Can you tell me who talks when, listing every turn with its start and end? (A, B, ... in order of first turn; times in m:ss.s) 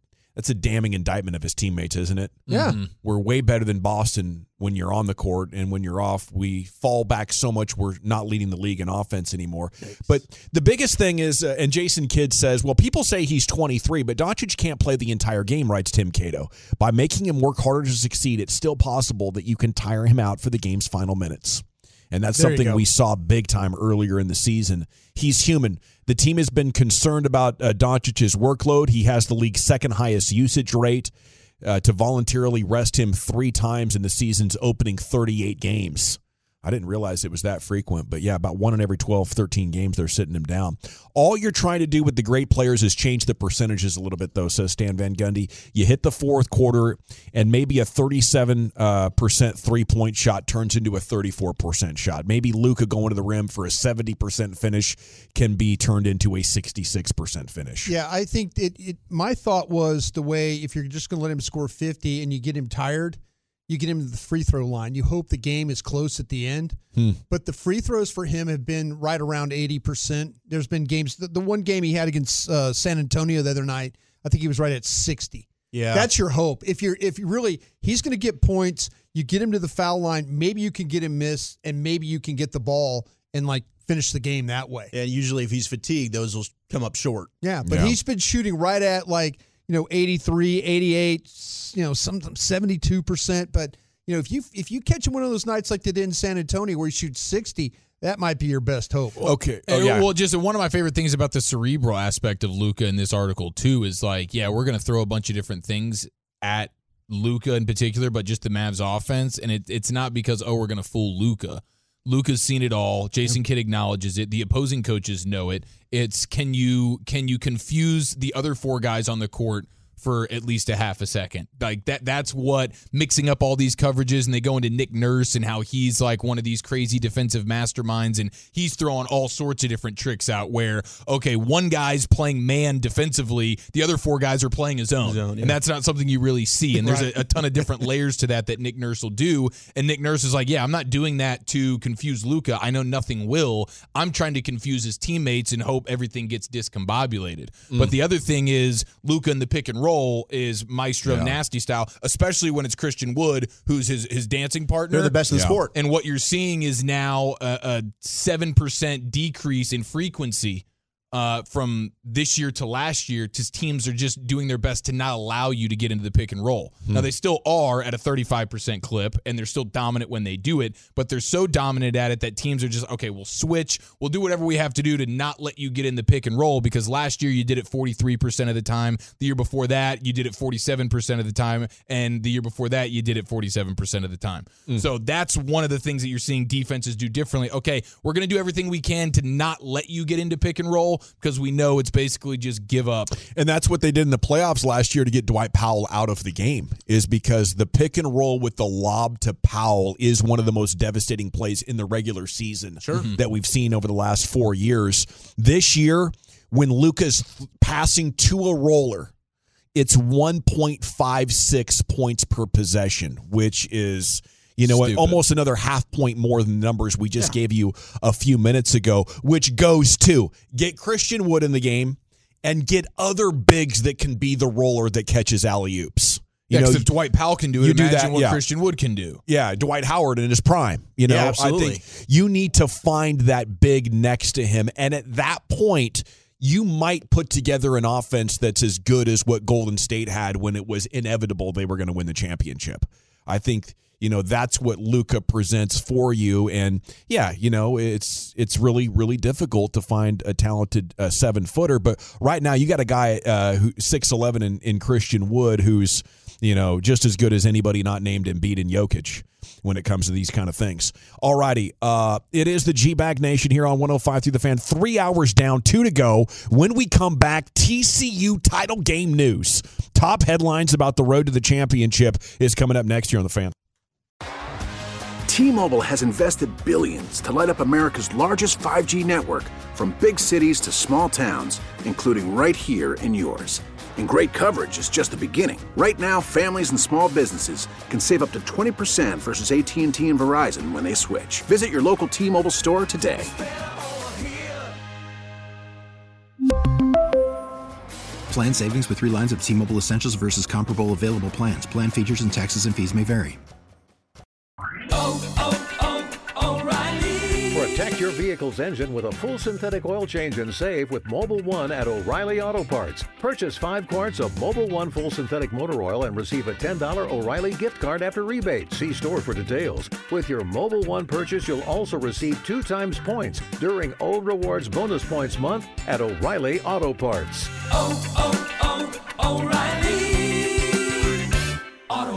0:00.3-0:57.9 A
0:02.5-0:02.8 B
0:02.5-0:02.9 C
0:22.3-0:22.8 B
0:57.8-1:06.8 B
1:07.3-1:24.9 B
1:15.7-1:16.1 D
1:24.9-1:27.3 D
1:27.4-1:39.3 B
1:27.6-1:28.0 A
1:39.2-1:40.1 A
1:39.7-2:35.2 C
2:15.0-2:15.6 D
2:16.8-2:17.1 B
2:31.0-2:31.4 A
2:34.9-2:35.7 D
2:35.3-2:35.6 A
2:35.7-3:13.2 C
3:13.2-3:29.1 A
3:22.8-3:23.2 C
3:29.7-3:46.9 A
3:34.6-3:35.2 C
3:46.5-3:49.2 C
3:47.6-3:48.4 A
3:49.2-4:33.5 A
3:51.0-3:51.8 D
4:35.2-4:53.4 E
4:58.3-5:03.4 F
5:07.5-5:27.6 G